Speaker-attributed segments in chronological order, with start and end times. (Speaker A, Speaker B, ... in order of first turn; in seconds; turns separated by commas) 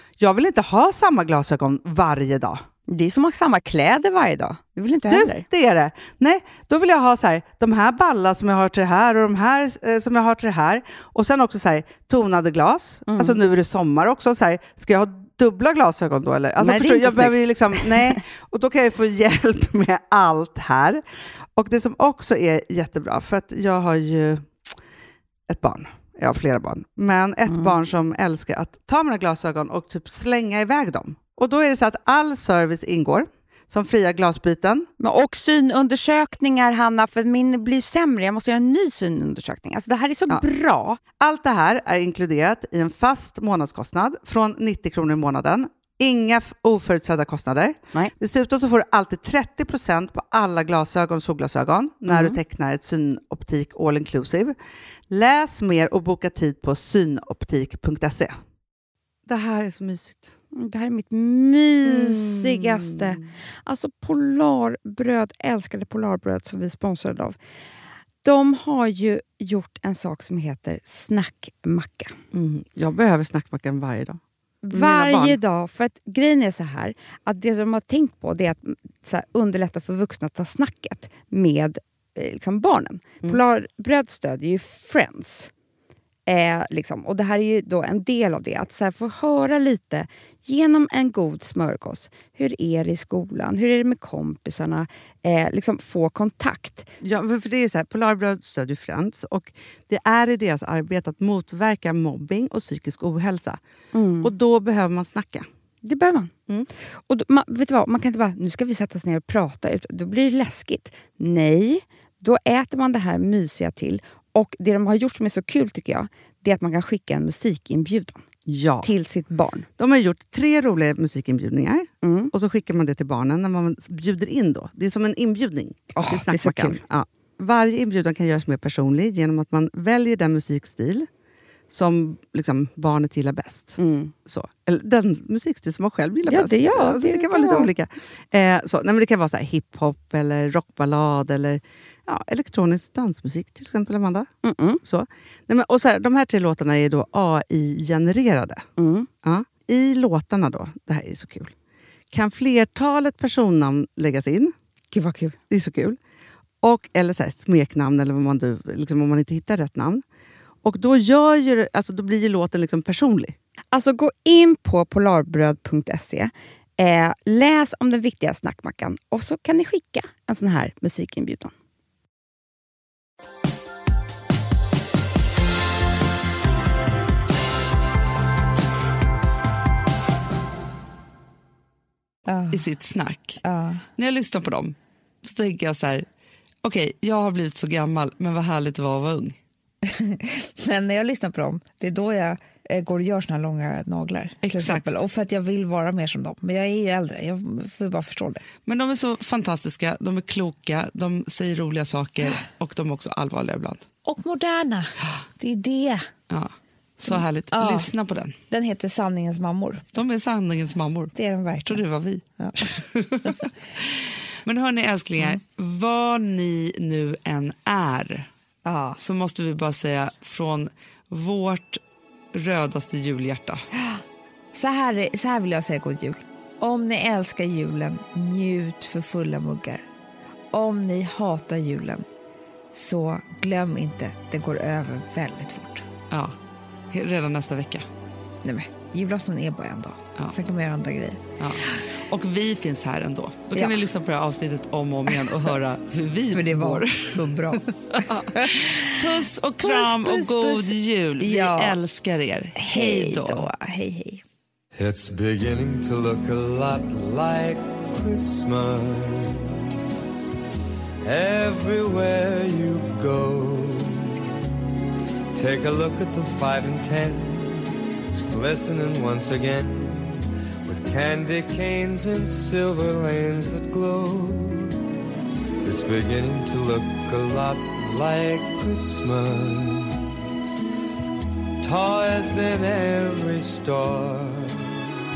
Speaker A: 0.2-2.6, Speaker B: 2.9-5.4, Speaker A: 5.1-21.0, Speaker B: 13.1-13.4, Speaker B: 16.6-17.3, Speaker A: 21.6-24.7, Speaker A: 25.5-34.9, Speaker B: 27.5-27.7, Speaker B: 35.0-41.0, Speaker A: 41.2-54.5, Speaker B: 52.1-52.4, Speaker A: 55.1-58.4, Speaker A: 59.3-60.3, Speaker B: 60.5-67.4, Speaker A: 61.8-63.2, Speaker B: 68.2-72.1, Speaker A: 72.3-74.2, Speaker B: 74.6-85.5, Speaker A: 74.7-75.4, Speaker B: 86.3-96.9, Speaker A: 97.0-103.6, Speaker B: 103.9-104.3, Speaker A: 104.2-105.5, Speaker B: 105.8-106.3, Speaker B: 107.1-118.2, Speaker A: 118.5-118.9, Speaker B: 118.8-119.7, Speaker A: 119.8-131.1, Speaker B: 122.0-122.3, Speaker B: 126.0-126.8, Speaker A: 131.7-144.3, Speaker B: 133.8-134.1, Speaker B: 136.3-137.7, Speaker B: 144.4-144.8, Speaker A: 144.8-148.7, Speaker B: 148.8-149.1, Speaker A: 149.2-151.5, Speaker A: 152.1-154.5, Speaker B: 154.9-155.4, Speaker A: 155.5-156.0, Speaker A: 156.6-160.0, Speaker A: 160.6-163.4, Speaker B: 163.7-171.5, Speaker C: 182.3-182.6, Speaker D: 182.5-183.4, Speaker C: 183.4-183.8, Speaker D: 183.9-186.1, Speaker D: 186.6-189.4, Speaker C: 189.8-198.4, Speaker D: 194.4-194.9, Speaker D: 198.7-203.8, Speaker C: 204.0-206.0, Speaker D: 206.3-208.4, Speaker C: 207.1-207.9, Speaker C: 208.5-209.8, Speaker D: 209.9-213.9, Speaker C: 211.1-211.8, Speaker D: 214.4-218.3, Speaker C: 218.6-219.0, Speaker D: 219.0-221.8, Speaker D: 222.3-223.6, Speaker C: 224.5-229.8, Speaker C: 230.5-232.1, Speaker C: 232.7-235.9, Speaker D: 236.1-236.4, Speaker D: 236.9-237.9, Speaker C: 238.4-241.8, Speaker D: 241.4-253.5, Speaker C: 246.3-251.8, Speaker C: 252.6-254.2, Speaker E: 254.7-260.1, Speaker E: 261.0-264.2, Speaker E: 265.3-274.8, Speaker E: 275.6-280.2, Speaker E: 281.6-284.9